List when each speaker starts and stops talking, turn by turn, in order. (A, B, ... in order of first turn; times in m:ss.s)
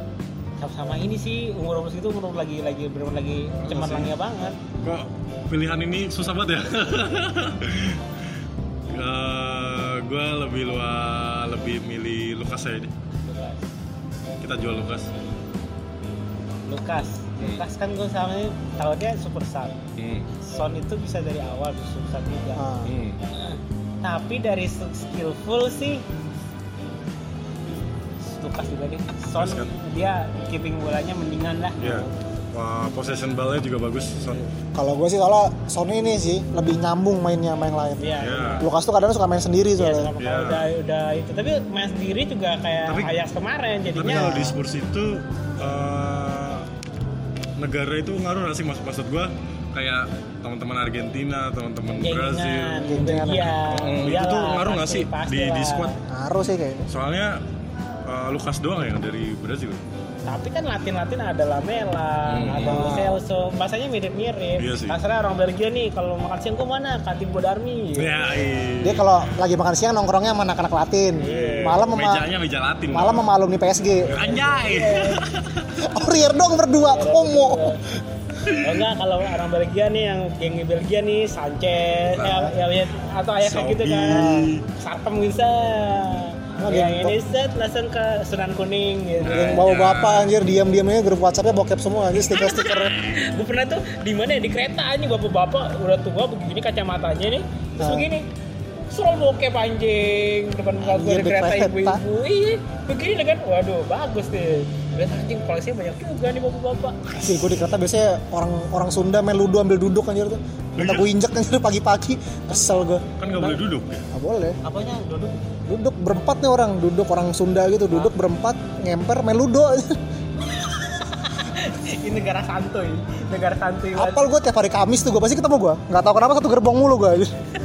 0:00.6-0:04.6 A
0:03.6-0:04.1 B
0:04.8-0:08.0 B
0:08.9-0:12.9 B
0:13.2-0:13.7 A
0:14.4-0:15.1 B
0:16.7-0:19.8 A
0:20.0-0:20.3 B
0:20.4-0:22.7 A
0:22.6-0:22.9 C
0:22.8-0:23.2 B
0:23.4-0:26.1 A
0:28.4-0:32.1 A
0:29.4-0:29.7 B
0:31.8-0:34.5 B
0:31.8-0:32.1 C
0:34.8-0:40.1 C
0:38.0-0:38.7 A
0:38.2-0:38.6 B
0:39.8-0:44.4 A
0:40.2-0:40.7 B
0:42.9-0:43.1 B
0:43.9-0:46.7 B
0:44.0-0:44.6 C
0:47.6-0:52.8 B
0:52.0-0:56.0 A
0:52.9-0:53.5 C
0:53.6-0:55.9 B
0:56.1-0:56.9 C
0:56.9-0:57.4 B
0:58.1-0:59.8 B
1:00.3-1:08.2 A
1:02.3-1:03.0 B
1:02.6-1:03.2 C
1:04.6-1:05.0 B
1:08.0-1:09.4 B
1:08.8-1:12.3 C
1:11.2-1:11.8 A
1:11.2-1:13.3 B
1:12.9-1:14.2 C
1:14.0-1:15.2 A
1:14.1-1:15.7 B
1:15.8-1:17.8 C
1:16.8-1:17.8 A
1:18.5-1:18.8 B
1:18.6-1:29.6 A
1:22.2-1:22.5 B
1:23.4-1:24.6 B
1:24.1-1:24.5 C
1:26.6-1:27.2 C
1:29.2-1:30.3 B
1:29.2-1:33.0 C
1:32.3-1:38.3 A
1:37.8-1:38.1 C
1:38.9-1:47.0 A
1:40.8-1:42.0 C
1:47.1-1:47.6 B
1:47.2-1:53.5 C
1:50.8-1:51.1 B
1:53.2-1:54.1 B
1:54.1-1:54.6 C
1:54.6-1:55.4 A
1:55.7-2:00.0 C
2:00.6-2:04.3 A
2:04.0-2:07.3 C